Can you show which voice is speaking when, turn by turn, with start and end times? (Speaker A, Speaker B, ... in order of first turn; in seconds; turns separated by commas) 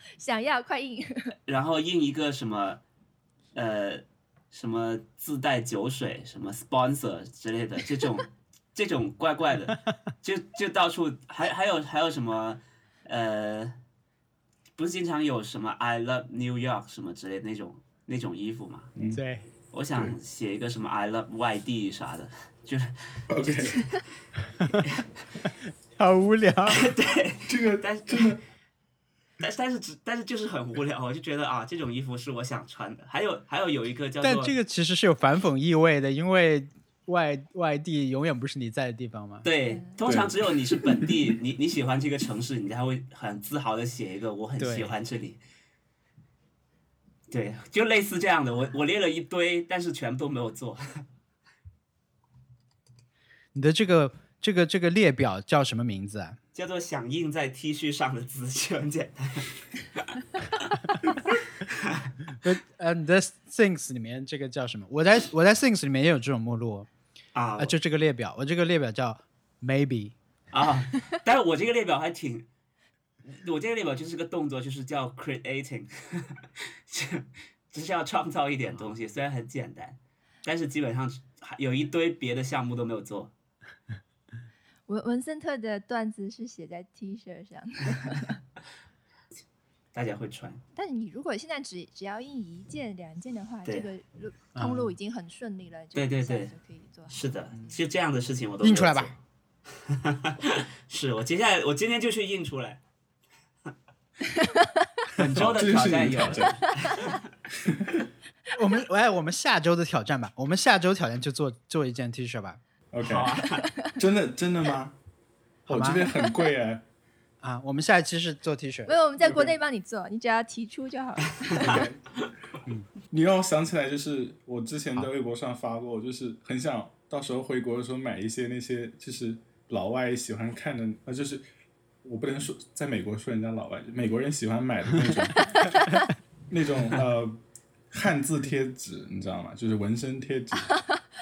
Speaker A: 0.2-1.4, Speaker B: 1.5-2.8, Speaker B: 3.5-13.8, Speaker B: 14.8-18.9, Speaker C: 19.1-19.5, Speaker B: 19.7-24.0, Speaker D: 23.3-23.8, Speaker C: 24.6-24.9, Speaker C: 25.9-26.9, Speaker B: 26.7-28.4, Speaker D: 27.5-28.4, Speaker B: 29.4-34.5, Speaker C: 34.2-39.5, Speaker B: 39.4-45.4, Speaker D: 40.0-40.4, Speaker C: 44.6-45.0, Speaker B: 47.3-51.0, Speaker C: 53.5-56.4, Speaker B: 56.5-60.1, Speaker B: 61.3-62.1, Speaker C: 62.4-66.9, Speaker B: 67.3-67.8, Speaker C: 67.6-70.2, Speaker B: 70.5-72.5, Speaker B: 73.2-83.3, Speaker A: 84.9-88.4, Speaker B: 89.9-90.6, Speaker A: 90.8-97.1, Speaker C: 94.5-95.0, Speaker B: 96.0-96.5, Speaker B: 97.1-99.1, Speaker C: 98.6-99.1, Speaker B: 99.8-102.8, Speaker A: 104.4-104.9, Speaker B: 105.1-107.2, Speaker D: 105.2-106.7, Speaker D: 107.6-108.1, Speaker C: 108.5-112.6, Speaker D: 112.9-113.4, Speaker B: 113.0-113.7, Speaker A: 113.6-113.9, Speaker D: 114.0-115.0, Speaker C: 115.7-116.1, Speaker D: 115.7-116.8, Speaker C: 117.4-119.5, Speaker A: 118.9-121.9, Speaker D: 121.5-122.0, Speaker D: 123.1-131.4, Speaker D: 132.0-135.6, Speaker A: 135.5-136.1, Speaker D: 136.5-137.4, Speaker D: 137.9-140.8